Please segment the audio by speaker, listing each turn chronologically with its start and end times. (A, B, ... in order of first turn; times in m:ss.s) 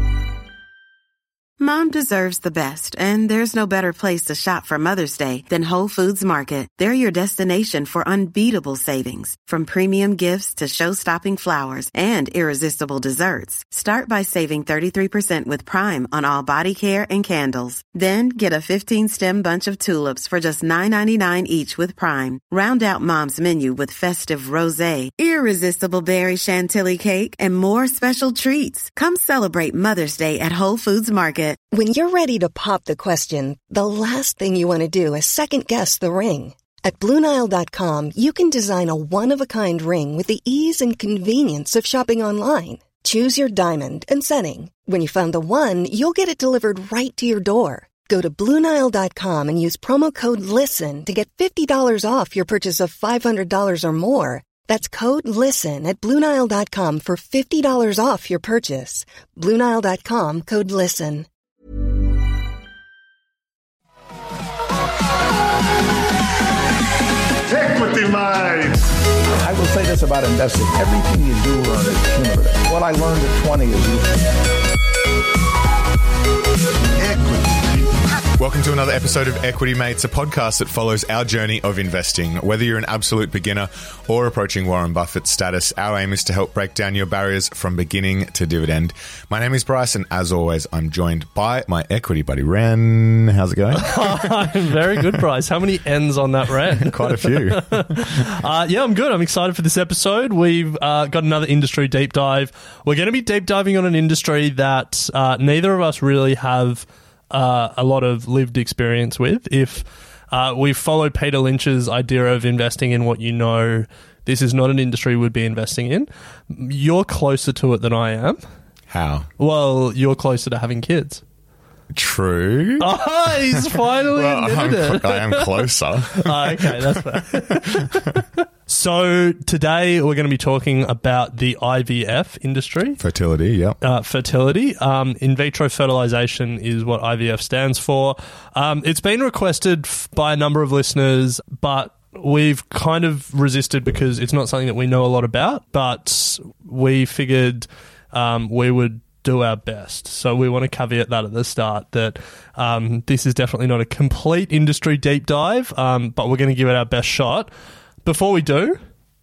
0:01.6-0:31.6 A
0:31.7-1:01.3 B
1:07.5-1:08.8 C
1:09.4-1:14.3 C
1:17.0-1:17.6 C
1:18.4-1:34.4 D
1:33.8-1:58.4 E
1:36.8-1:38.1 D
1:58.9-1:59.3 D
1:59.4-2:01.2 E
2:01.9-2:03.0 D
2:02.8-2:13.0 E
2:03.5-2:07.8 D
2:13.0-2:13.8 D
2:13.8-2:37.5 E
2:38.0-2:38.8 E